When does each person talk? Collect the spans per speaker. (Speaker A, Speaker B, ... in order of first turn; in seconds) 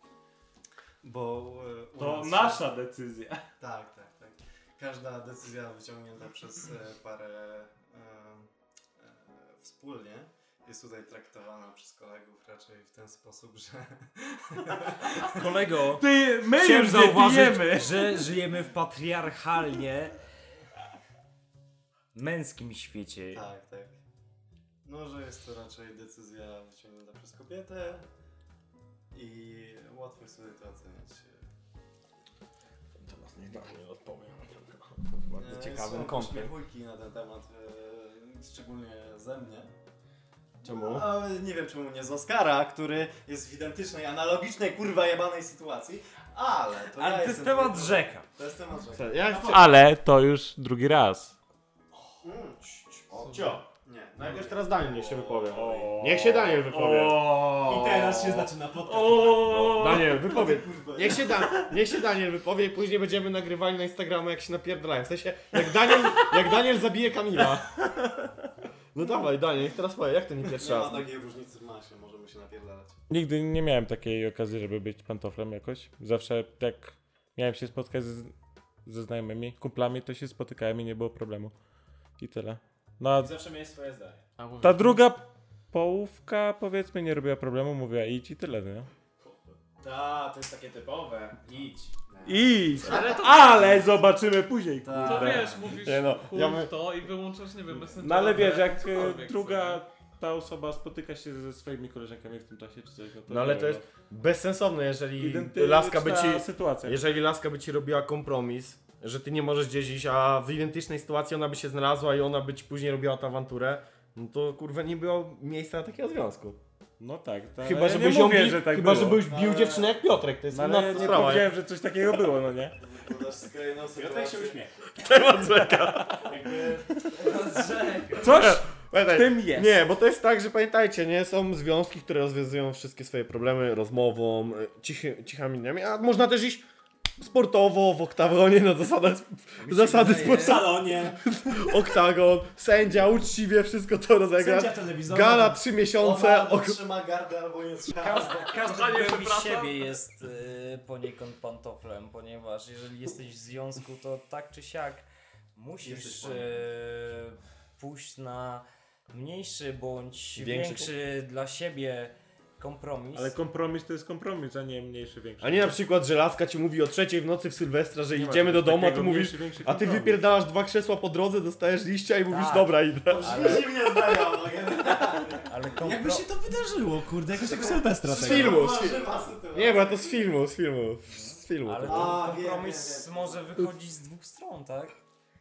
Speaker A: 1.0-2.8, 3.6-15.5, 23.3-23.9, 24.8-28.0, 29.1-31.4, 35.4-39.7, 40.6-49.2, 52.2-52.6, 53.3-56.0, 70.5-73.0, 92.1-93.5, 94.8-95.6, 119.2-120.0, 120.8-121.5, 122.8-124.6, 126.2-127.0, 146.0-148.3, 155.8-156.5, 173.1-175.5, 178.1-180.3, 181.9-183.5
Speaker B: 2.0-3.4, 16.0-18.3, 49.5-51.3, 55.5-60.2, 73.1-78.3, 78.8-81.5, 82.2-83.3, 84.6-88.9, 92.2-95.5, 97.9-103.8, 105.2-107.0, 117.0-119.3, 120.5-122.8, 128.2-129.8, 163.1-165.7, 168.1-170.2
Speaker C: 15.3-20.2, 22.1-23.4, 46.9-48.3, 127.0-128.4, 139.6-140.8, 147.9-163.3, 172.3-173.8, 175.3-176.2, 181.6-184.9
Speaker D: 33.0-36.5, 40.6-41.1, 48.9-49.7, 52.7-53.6, 54.2-57.3, 59.5-67.7, 68.9-71.1, 95.6-96.7, 103.3-116.6, 117.6-121.5, 125.0-126.3, 128.2-136.7, 137.2-146.8, 160.3-160.9, 165.4-173.7, 178.0-182.3
Speaker E: 49.3-49.6, 57.6-61.4, 83.1-84.2, 89.8-91.9, 123.9-124.8, 126.3-126.7, 140.0-141.2, 144.3-145.6, 175.8-178.7
Speaker F: 84.4-85.1, 94.9-99.8, 148.2-149.9